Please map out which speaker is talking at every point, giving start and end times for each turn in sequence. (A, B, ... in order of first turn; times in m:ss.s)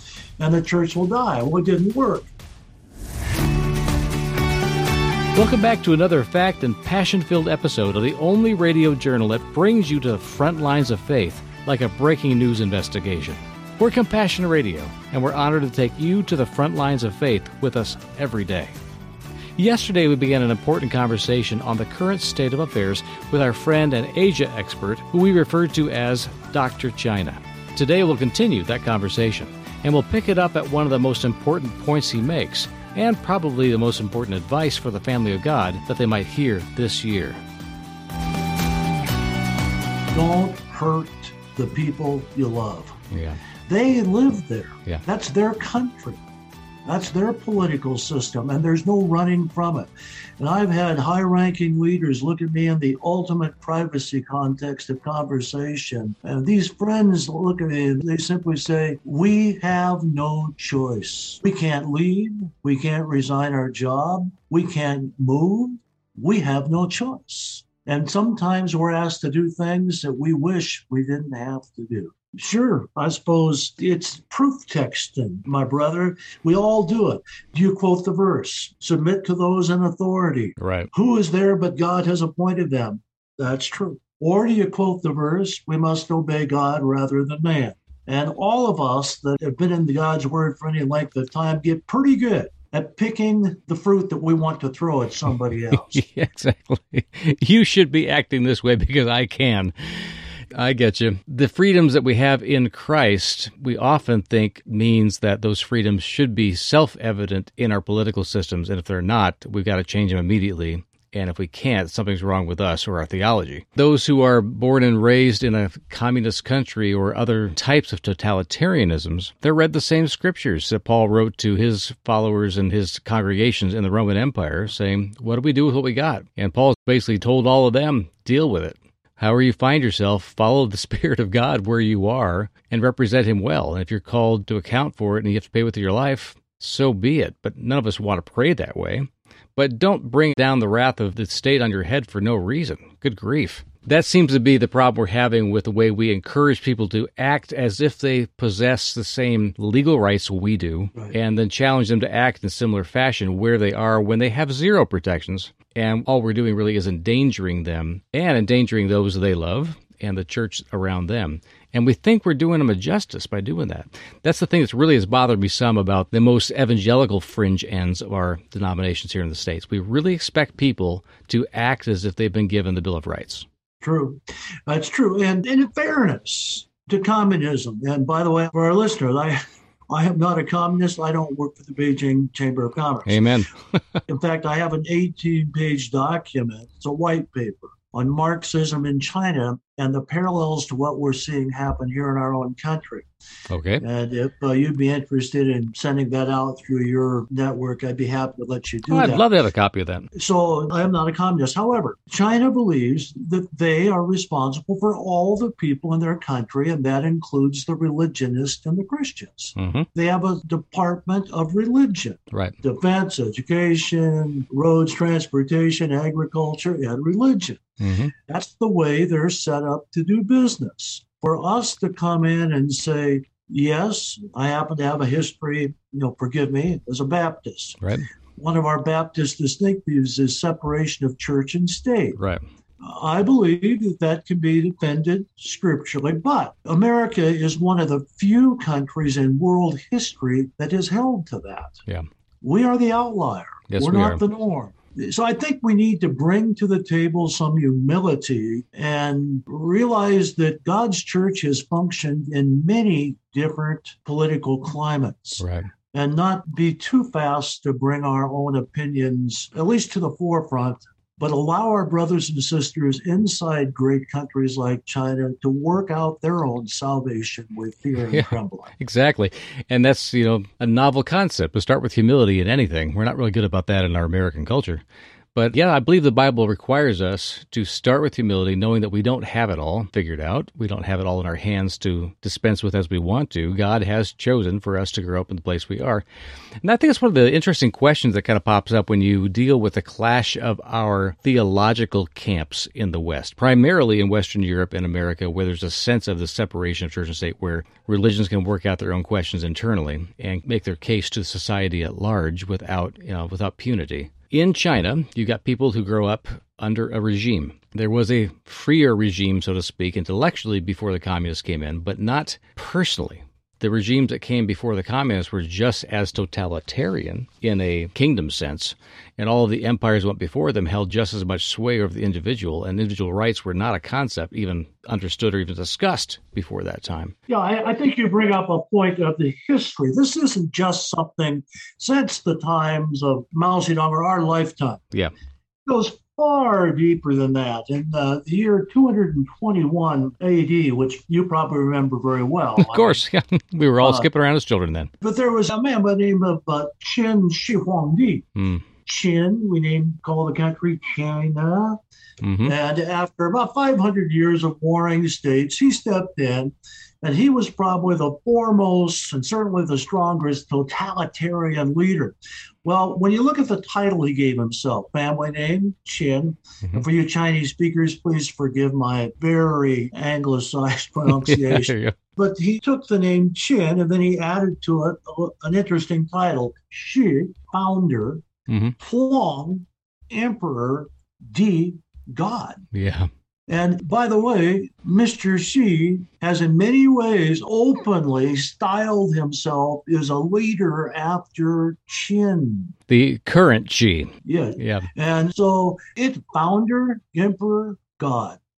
0:00.4-0:02.3 A
0:05.3-0:18.7 B
0:19.6-0:37.4 B
0:40.1-0:43.0 A
0:43.1-0:43.4 B
0:43.7-0:46.2 A
0:46.8-1:36.0 A
1:20.6-1:20.9 B
1:35.7-2:53.4 B
2:53.8-3:03.2 A
3:03.1-3:03.8 B
3:04.1-3:13.0 A
3:13.5-3:13.8 B
3:13.8-3:19.2 A
3:18.9-3:20.1 B
3:20.1-3:37.6 A
3:29.6-3:29.9 B
3:32.3-3:32.6 B
3:37.8-3:38.1 B
3:38.1-3:47.8 A
3:47.8-3:48.1 B
3:48.4-3:52.2 A
3:52.2-3:52.4 B
3:52.8-4:01.8 A
4:02.4-4:28.7 A
4:03.7-4:04.2 B
4:15.4-4:15.7 B
4:28.1-4:34.8 B
4:35.3-4:46.0 B
4:46.6-5:27.1 B
5:27.3-5:34.8 A
5:35.6-5:43.0 A
5:42.6-5:44.9 B
5:43.8-5:44.1 A
5:45.0-5:48.3 A
5:48.4-5:48.6 B
5:48.8-5:51.8 A
5:52.2-5:52.5 B
5:52.4-6:18.2 A
6:11.1-6:12.0 B
6:18.5-6:18.8 B
6:18.8-6:22.6 A
6:22.7-6:23.1 B
6:23.5-6:32.7 A
6:32.9-6:34.9 B
6:34.2-6:38.4 A